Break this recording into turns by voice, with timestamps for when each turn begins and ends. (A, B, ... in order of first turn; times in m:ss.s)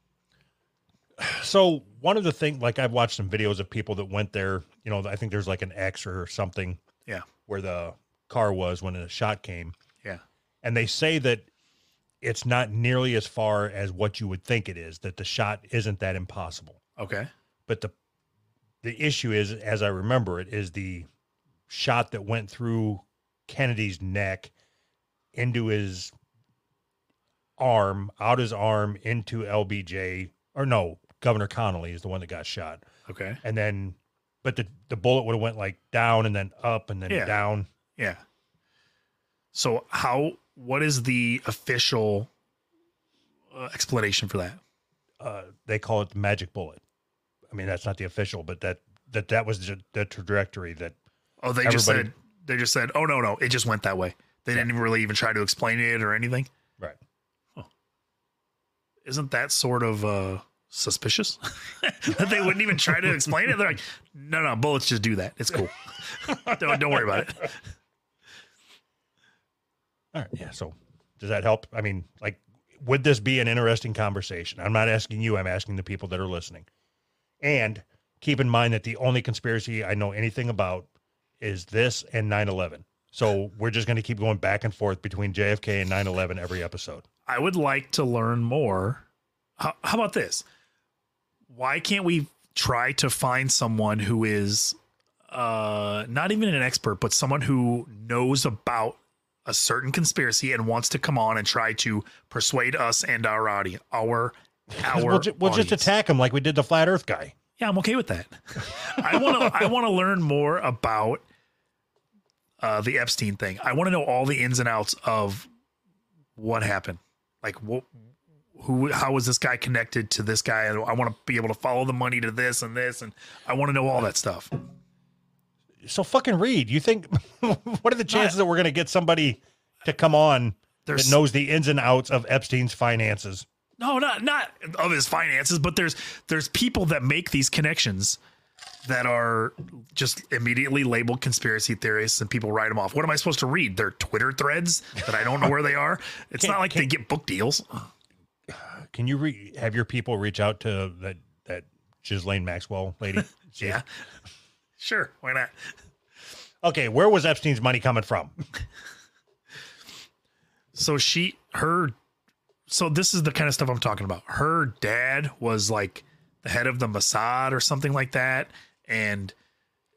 0:01.2-0:06.8 A
0:07.5-0:09.8 A
0:10.6-0:11.5 A
0:12.2-0:16.8 A
0:17.0-0:17.3 B
0:17.7-0:17.9 A
0:18.8-0:21.1 A
0:21.7-0:24.5 A
0:25.3-0:26.1 A
0:27.6-0:32.8 A
0:33.1-0:33.4 B
0:33.4-0:37.7 A
0:37.1-0:37.3 B
0:39.5-0:42.3 B
0:43.5-0:44.6 B
0:45.2-0:46.8 A
0:47.5-0:51.0 A
0:51.4-0:56.5 B
0:51.6-0:52.1 A
0:59.0-1:07.6 B
1:06.3-1:07.3 A
1:10.1-1:16.7 A
1:17.4-1:20.9 A
1:21.4-1:27.0 A
1:27.3-1:29.0 B
1:29.6-1:30.4 B
1:31.5-1:34.8 B
1:35.3-1:45.9 B
1:44.7-1:47.4 A
1:47.6-1:51.2 B
1:49.1-1:49.6 A
1:52.6-1:55.5 B
1:56.4-1:57.9 B
1:58.6-2:04.6 B
2:05.8-2:13.5 A
2:08.1-2:08.4 B
2:10.9-2:11.2 B
2:13.8-2:18.2 B
2:18.8-2:27.7 B
2:26.4-2:26.9 A
2:28.5-2:33.8 A
2:34.8-2:35.7 B
2:36.6-2:38.4 A
2:40.8-2:42.0 B
2:42.7-2:49.3 B